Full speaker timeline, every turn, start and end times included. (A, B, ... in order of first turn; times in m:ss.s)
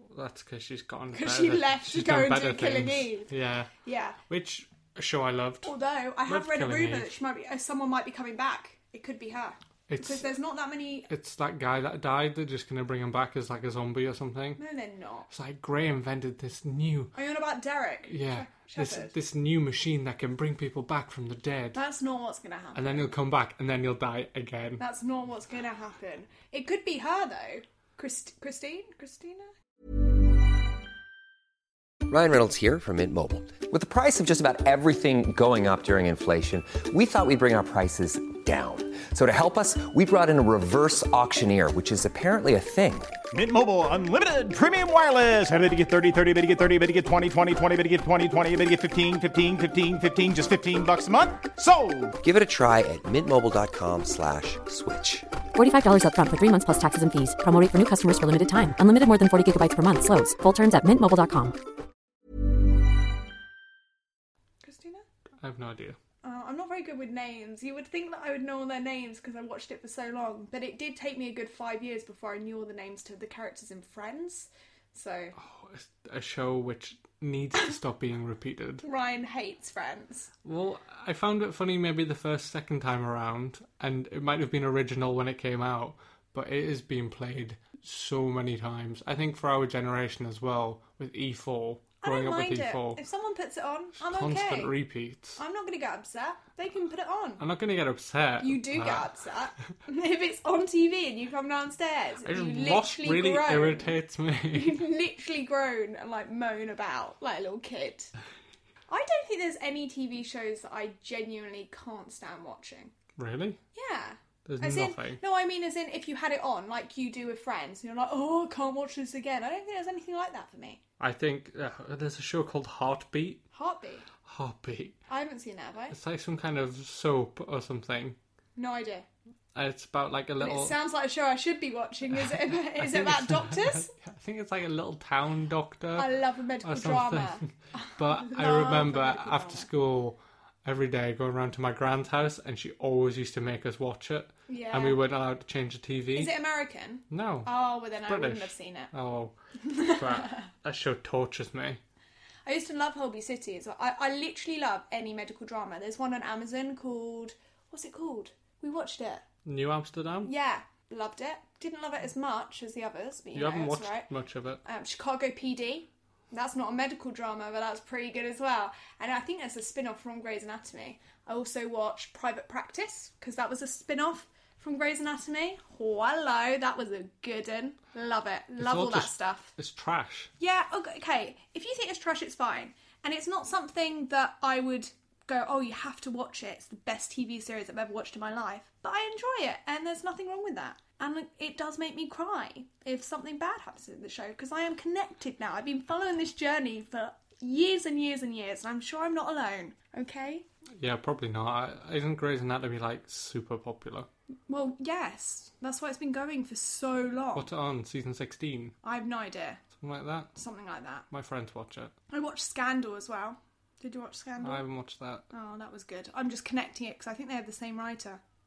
0:00.1-0:03.7 A
0:01.1-0:03.3 B
0:03.8-0:04.2 B
0:04.3-0:05.7 A
0:05.6-0:11.1 B
0:06.3-0:07.1 A
0:09.9-0:10.3 A
0:11.1-0:14.6 A
0:14.6-0:15.3 B
0:15.3-0:17.1 A
0:17.1-0:19.1 B
0:18.1-0:21.8 A
0:21.7-0:23.1 B
0:22.7-0:24.8 A
0:24.8-0:29.5 B
0:32.1-0:43.2 C
0:43.3-0:52.2 D
0:52.2-0:55.3 C
0:55.6-1:01.6 E
1:04.6-1:05.0 B
1:05.4-1:06.0 A
1:06.2-1:15.3 B
1:15.4-1:18.8 A
1:18.8-1:20.3 B
1:20.4-1:33.0 A
1:32.0-1:34.7 B
1:34.0-1:35.4 A
1:35.4-1:37.4 B
1:37.4-1:39.2 A
1:38.4-1:43.9 B
1:42.2-1:44.8 A
1:44.5-1:48.1 B
1:48.9-1:52.9 B
1:53.2-1:53.6 A
1:53.7-2:00.8 B
1:54.4-1:55.2 A
2:01.0-2:03.4 A
2:03.5-2:04.0 B
2:04.2-2:05.0 A
2:05.1-2:06.0 B
2:05.9-2:08.2 A
2:08.6-2:09.0 B
2:09.5-2:10.8 A
2:10.4-2:13.9 B
2:12.1-2:26.3 A
2:16.0-2:19.7 B
2:24.5-2:25.0 B
2:26.1-2:28.9 B
2:27.1-2:27.5 A
2:28.0-2:31.8 A
2:29.6-2:30.5 B
2:32.4-2:39.2 B
2:39.4-2:40.3 A
2:40.2-2:44.1 B
2:43.3-2:44.6 A
2:44.6-2:59.5 B
2:58.6-3:00.3 A
3:00.4-3:20.4 B
3:20.8-3:24.1 A
3:24.5-3:27.5 B
3:27.4-3:28.7 A
3:28.8-3:29.6 B
3:29.8-3:30.3 A
3:30.3-3:31.0 B
3:31.1-3:31.9 A
3:32.1-3:34.6 B
3:34.4-3:35.2 A
3:35.3-3:38.2 B